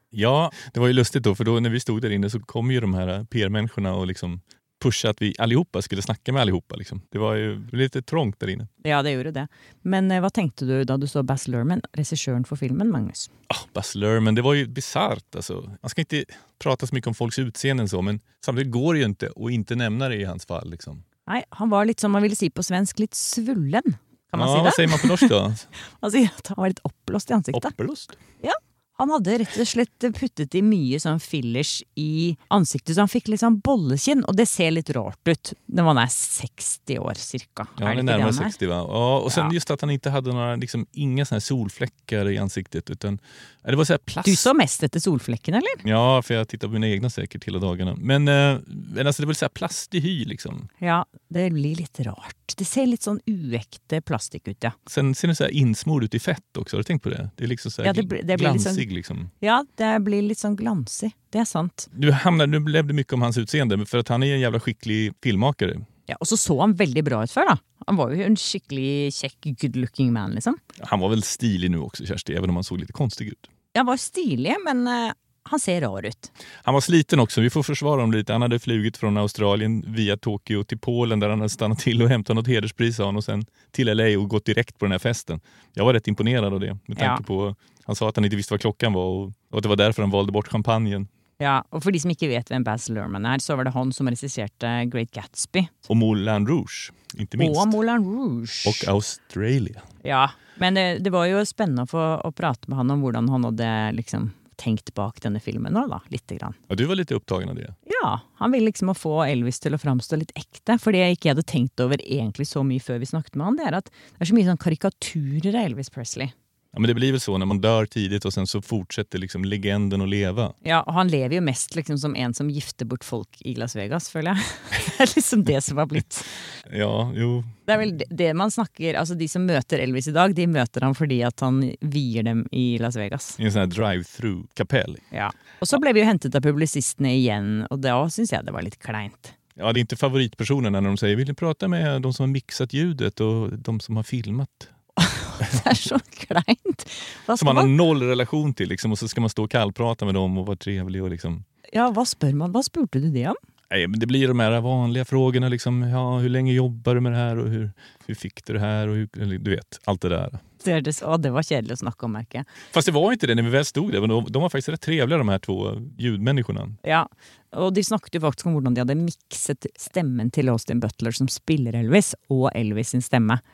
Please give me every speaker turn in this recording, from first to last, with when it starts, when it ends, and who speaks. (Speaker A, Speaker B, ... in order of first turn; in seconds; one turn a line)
Speaker A: 0.1-8.7
Speaker B: 8.8-13.3
Speaker A: 13.5-21.0
Speaker B: 21.3-25.3
Speaker A: 24.3-25.7
Speaker B: 26.0-27.7
Speaker A: 27.5-28.1
Speaker B: 28.4-38.5
Speaker A: 37.8-44.5
Speaker B: 39.3-39.5
Speaker B: 44.2-45.8
Speaker A: 45.8-50.7
Speaker B: 50.8-54.7
Speaker A: 54.9-59.3
Speaker B: 57.8-58.9
Speaker B: 59.4-61.9
Speaker A: 61.9-65.8
Speaker B: 66.1-70.6
Speaker A: 70.8-73.5
Speaker B: 73.7-76.3
Speaker A: 76.6-91.1
Speaker B: 87.0-87.2
Speaker B: 91.4-95.7
Speaker A: 95.9-97.7
Speaker B: 97.4-98.9
Speaker A: 98.6-99.8
Speaker B: 100.0-106.6
Speaker A: 106.7-107.8
Speaker B: 107.8-116.3
Speaker A: 116.7-120.5
Speaker B: 120.6-126.3
Speaker A: 126.7-127.5
Speaker B: 127.7-133.4
Speaker A: 133.4-135.0
Speaker B: 135.1-139.3
Speaker A: 139.6-144.7
Speaker B: 145.0-147.7
Speaker A: 147.4-151.4
Speaker B: 151.7-153.3
Speaker A: 153.7-160.4
Speaker B: 160.6-162.5
Speaker A: 162.7-166.8
Speaker B: 166.8-173.4